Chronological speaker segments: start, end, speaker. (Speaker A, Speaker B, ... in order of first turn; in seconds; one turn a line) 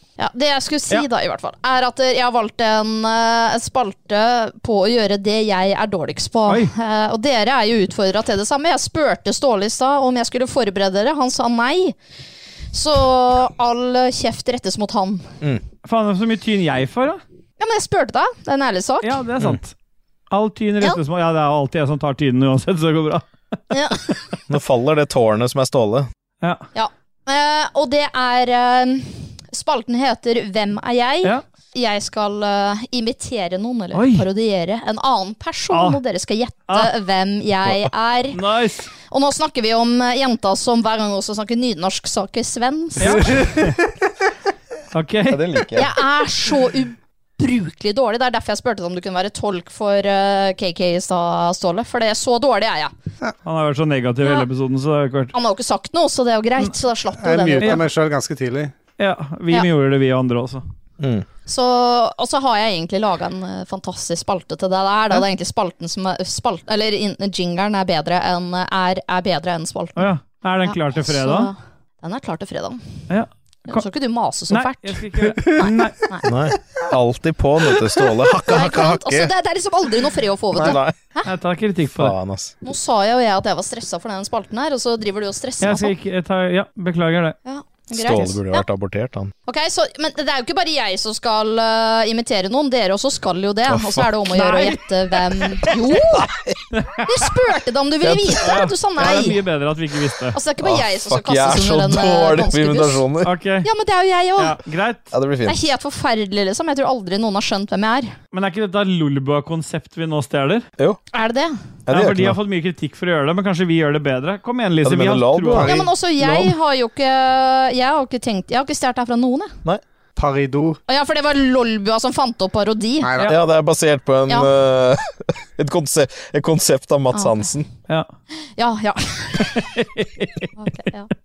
Speaker A: 0.2-12.0
Speaker A: 12.7-15.3
Speaker B: 15.8-17.2
Speaker A: 17.6-19.2
Speaker B: 19.0-19.7
Speaker B: 20.3-23.3
Speaker A: 23.7-24.0
Speaker C: 24.5-26.1
Speaker A: 26.8-38.4
Speaker B: 33.9-34.3
Speaker B: 35.7-36.0
Speaker B: 38.3-38.9
Speaker A: 39.1-43.5
Speaker B: 43.0-43.8
Speaker B: 44.9-45.4
Speaker C: 45.3-46.0
Speaker A: 45.8-52.9
Speaker B: 53.5-55.3
Speaker A: 55.3-57.9
Speaker D: 57.2-58.7
Speaker B: 59.0-60.6
Speaker C: 61.0-61.3
Speaker A: 61.5-70.1
Speaker B: 70.0-71.5
Speaker A: 70.7-72.8
Speaker B: 73.1-73.8
Speaker A: 73.7-76.3
Speaker B: 74.5-76.0
Speaker C: 76.2-79.3
Speaker A: 78.4-81.3
Speaker C: 80.6-81.0
Speaker B: 81.3-82.1
Speaker C: 81.9-82.5
Speaker A: 82.6-85.9
Speaker B: 85.6-87.4
Speaker A: 87.5-88.7
Speaker C: 87.9-89.3
Speaker A: 89.5-96.3
Speaker C: 93.7-94.1
Speaker B: 94.3-95.8
Speaker B: 96.7-97.2
Speaker A: 97.1-99.4
Speaker C: 98.0-98.5
Speaker B: 98.4-100.4
Speaker A: 100.3-103.0
Speaker C: 100.6-103.3
Speaker B: 103.2-103.7
Speaker A: 103.6-104.6
Speaker B: 104.4-105.0
Speaker C: 105.1-105.6
Speaker A: 105.5-108.2
Speaker B: 108.3-110.7
Speaker A: 111.1-111.6
Speaker C: 111.9-112.4
Speaker B: 111.9-116.5
Speaker C: 114.8-115.8
Speaker D: 115.6-115.9
Speaker A: 115.6-119.5
Speaker D: 120.2-120.8
Speaker A: 120.9-123.3
Speaker D: 123.0-123.3
Speaker C: 123.3-127.7
Speaker A: 127.1-127.4
Speaker A: 128.6-129.6
Speaker B: 129.6-130.5
Speaker A: 130.6-131.1